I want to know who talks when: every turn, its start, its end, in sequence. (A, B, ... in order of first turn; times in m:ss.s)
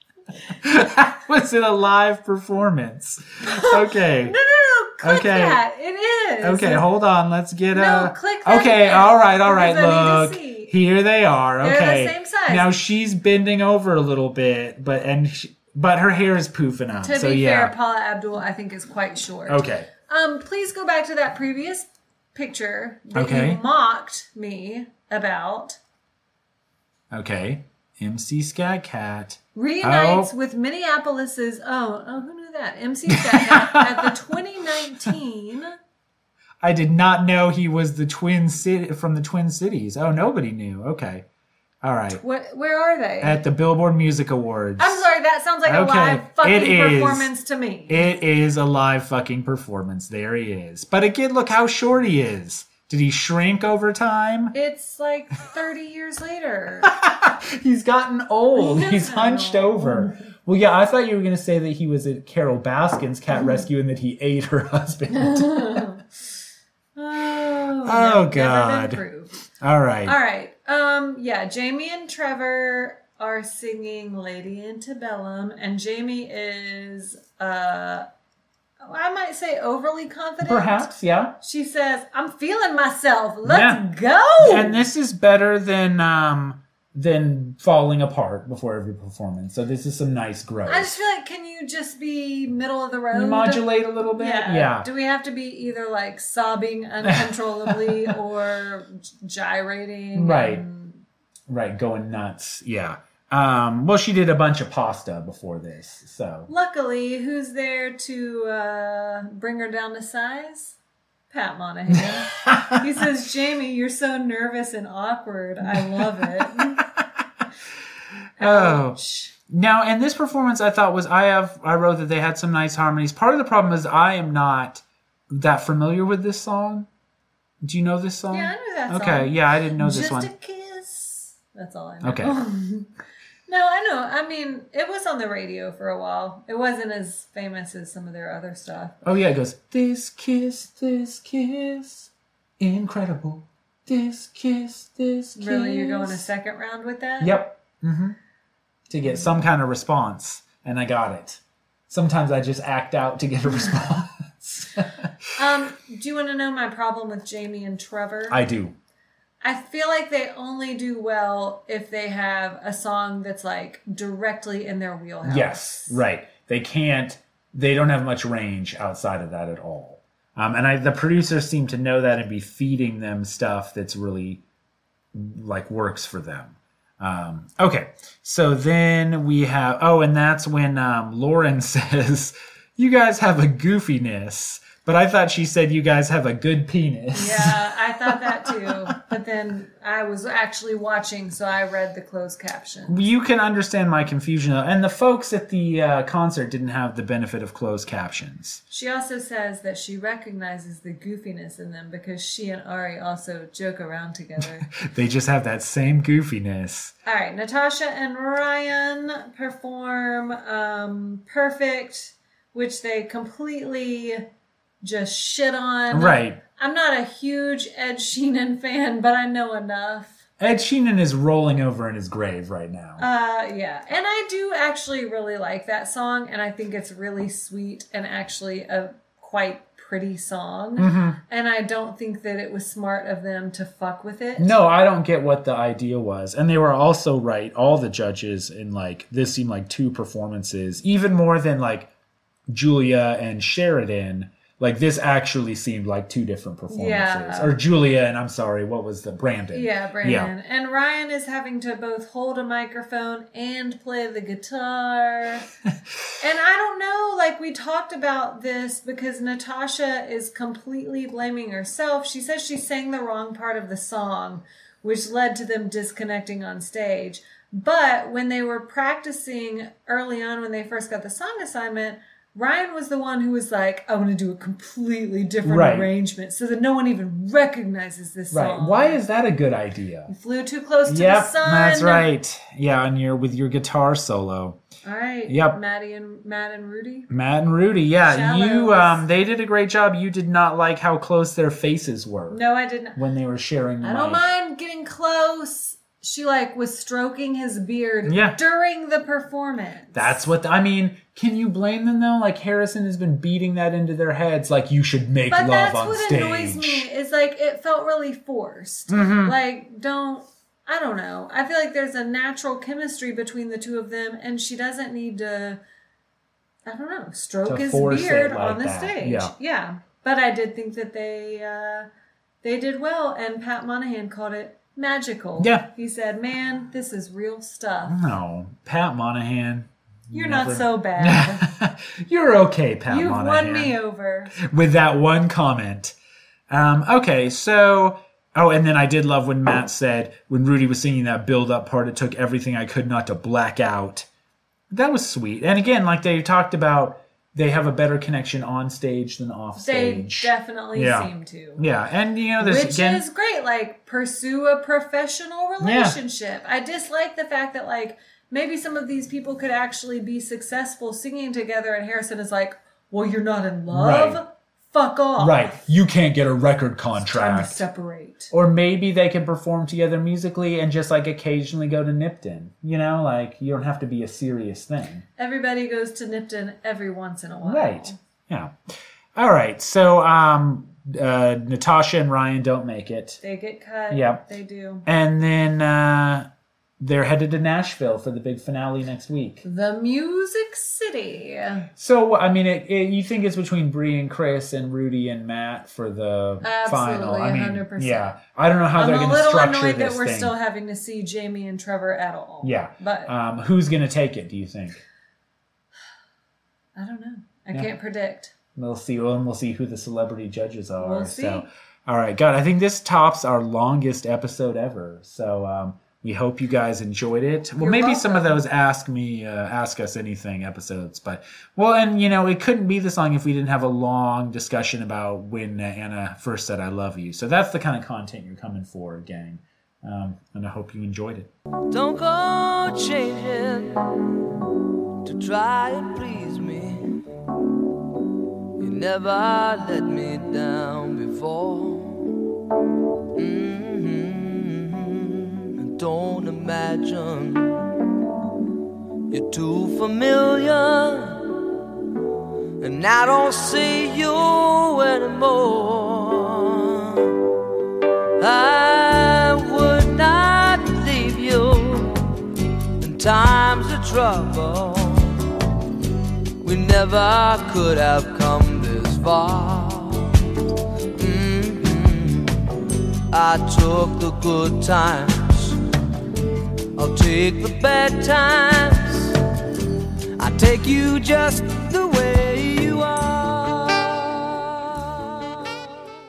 0:00.5-0:04.4 A
0:03.4-0:06.8 B
0:05.0-0:05.6 A
0:06.4-0:17.7 A
0:07.7-0:10.7 B
0:11.6-0:12.7 B
0:17.0-0:25.8 B
0:19.5-0:19.9 A
0:23.1-0:23.6 A
0:27.1-0:30.3 A
0:29.5-0:35.8 B
0:33.1-0:34.1 A
0:34.8-0:35.1 A
0:36.6-0:41.2 A
0:41.8-0:42.2 A
0:42.1-0:43.4 B
0:43.2-0:45.1 A
0:44.8-0:48.0 B
0:45.6-0:47.3 A
0:47.9-0:54.5 A
0:54.5-0:56.9 B
0:56.8-1:05.9 A
0:58.6-1:00.3 B
1:05.1-1:06.0 B
1:07.0-1:09.4 B
1:07.8-1:09.0 A
1:09.6-1:10.2 A
1:10.0-1:18.1 B
1:18.8-1:20.9 B
1:20.4-1:21.4 A
1:21.4-1:24.8 B
1:23.4-1:23.8 A
1:24.4-1:31.0 A
1:30.6-1:33.6 B
1:33.1-1:34.9 A
1:34.2-1:41.0 B
1:37.0-1:37.9 A
1:40.1-1:40.6 A
1:41.5-1:46.5 A
1:46.5-1:50.8 B
1:51.3-1:56.8 B
1:52.4-1:52.9 A
1:55.7-1:57.0 A
1:58.4-1:59.3 B
1:58.4-2:06.9 A
2:07.6-2:10.3 A
2:08.3-2:12.9 B
2:12.0-2:12.4 A
2:13.5-2:19.0 B
2:19.0-2:26.3 A
2:25.4-2:27.4 B
2:27.2-2:28.2 A
2:28.9-2:35.1 A
2:35.4-2:38.4 B
2:38.3-2:38.7 A
2:39.4-2:46.0 B
2:45.2-2:54.4 A
2:55.1-3:09.0 A
3:07.1-3:13.0 B
3:12.9-3:18.6 A
3:18.7-3:24.7 B
3:24.7-3:26.9 A
3:27.0-3:34.2 B
3:34.8-3:40.2 B
3:35.9-3:36.4 A
3:40.4-3:43.0 A
3:43.0-3:54.6 B
3:50.8-3:51.2 A
3:54.4-4:01.9 A
4:02.5-4:10.3 A
4:06.7-4:07.6 B
4:09.5-4:15.5 B
4:16.2-4:39.0 B
4:35.4-4:35.9 A
4:38.3-4:40.1 A
4:40.1-4:42.1 B
4:40.8-4:44.6 A
4:44.8-4:47.1 B
4:45.3-4:45.6 A
4:47.1-4:52.4 A
4:48.0-4:49.0 B
4:52.3-4:53.0 B
4:52.9-4:54.3 A
4:53.8-5:00.1 B
4:58.0-4:58.4 A
4:59.9-5:06.8 A
5:05.3-5:15.6 B
5:08.9-5:09.4 A
5:16.6-5:21.9 B
5:17.4-5:19.3 A
5:22.4-5:28.0 B
5:25.4-5:25.7 A
5:27.9-5:33.8 A
5:30.1-5:31.5 B
5:32.9-5:34.3 B
5:34.4-5:35.9 A
5:36.5-5:44.1 A
5:44.7-5:53.0 A
5:49.5-5:51.6 B
5:52.4-6:05.6 B
5:55.6-5:56.0 A
6:03.7-6:04.2 A
6:05.2-6:07.6 A
6:07.0-6:08.3 B
6:08.3-6:15.0 A
6:15.2-6:18.0 B
6:17.4-6:18.5 A
6:19.2-6:23.2 A
6:23.2-6:24.8 B
6:23.9-6:24.3 A
6:24.8-6:29.4 A
6:29.4-6:31.7 B
6:31.8-6:40.3 A
6:36.4-6:38.1 B
6:38.8-6:43.1 B
6:42.4-6:44.8 A
6:46.8-6:48.3 B
6:48.5-7:11.3 A
6:50.8-6:51.5 B
6:57.6-6:58.4 B
7:11.7-7:14.3 C
7:15.0-7:17.0 C
7:18.6-7:22.1 C
7:23.1-7:27.6 C
7:29.1-7:31.3 C
7:32.6-7:37.2 C
7:38.2-7:42.2 C
7:42.8-7:45.3 C
7:46.4-7:50.2 C
7:50.9-7:55.6 C
7:56.7-7:59.2 C
8:00.2-8:05.3 C